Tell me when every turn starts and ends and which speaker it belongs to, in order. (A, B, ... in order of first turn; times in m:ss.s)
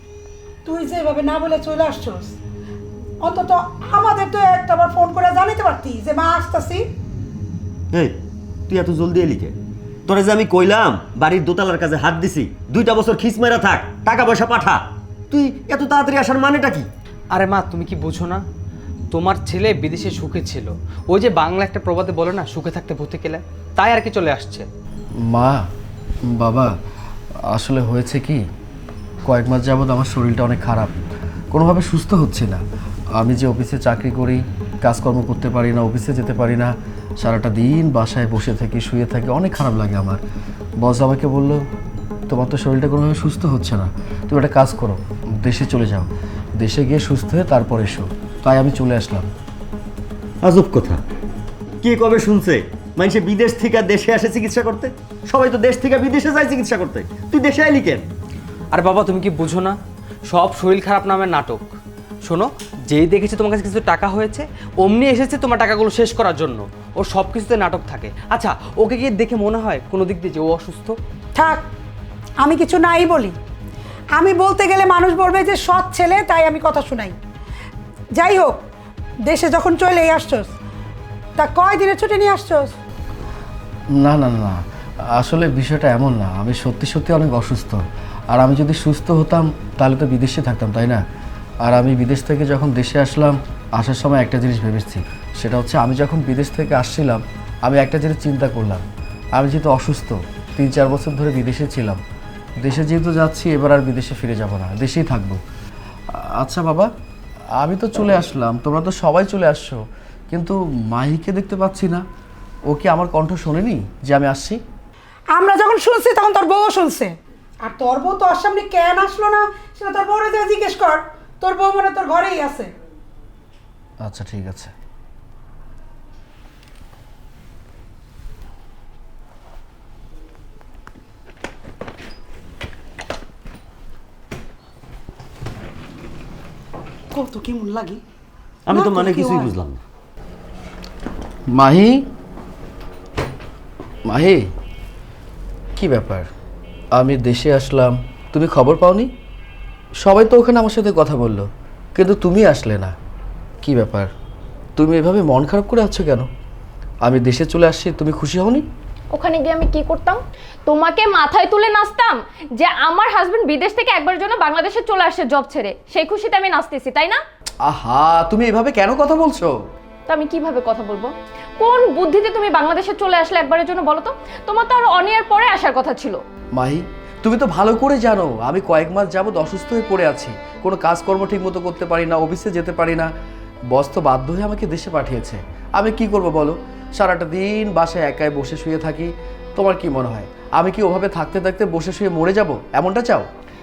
0:00.6-0:02.4 A
0:03.2-0:06.8 A
0:08.7-0:09.5 B
0:10.1-0:16.9 B
0:17.3-0:18.4 C
0:19.1-0:24.7 C
0:25.2-0:25.6 D
0:26.3-0:26.7 D
0:27.5-0:28.4 D
0:29.2-0:30.9 D
0:31.5-0:32.6 D
0:33.1-0:40.2 D
0:40.8-0:41.6 D
0:42.3-0:49.3 D
0:50.4-0:51.0 B
0:51.8-0:58.1 B
0:58.7-0:59.8 C
1:00.3-1:01.7 C
1:02.2-1:11.0 C
1:11.3-1:11.6 A
1:12.4-1:13.3 A
1:14.2-1:17.2 A
1:18.2-1:18.6 A
1:19.3-1:20.5 A
1:21.4-1:22.7 A
1:24.0-1:24.6 D
1:25.1-1:31.0 D
1:31.6-1:38.8 D
1:39.3-1:42.0 D
1:42.6-1:45.4 D
1:46.2-1:46.9 D
1:47.6-1:49.8 D
1:50.3-1:52.0 D
1:52.7-1:54.6 D
1:55.3-1:57.1 A
1:57.6-2:02.7 A
2:04.0-2:04.7 D
2:17.1-2:18.0 A
2:18.6-2:19.8 B
2:18.7-2:19.5 A
2:21.5-2:22.0 D
2:24.0-2:24.4 D
2:25.8-2:26.3 D
2:26.9-2:29.1 D
2:30.0-2:32.9 D
2:33.6-2:34.1 D
2:34.8-2:36.3 D
2:37.0-2:38.6 D
2:39.1-2:47.2 E
2:47.6-2:49.5 D
2:50.1-2:56.2 E
2:56.5-3:03.1 D
3:03.7-3:13.2 D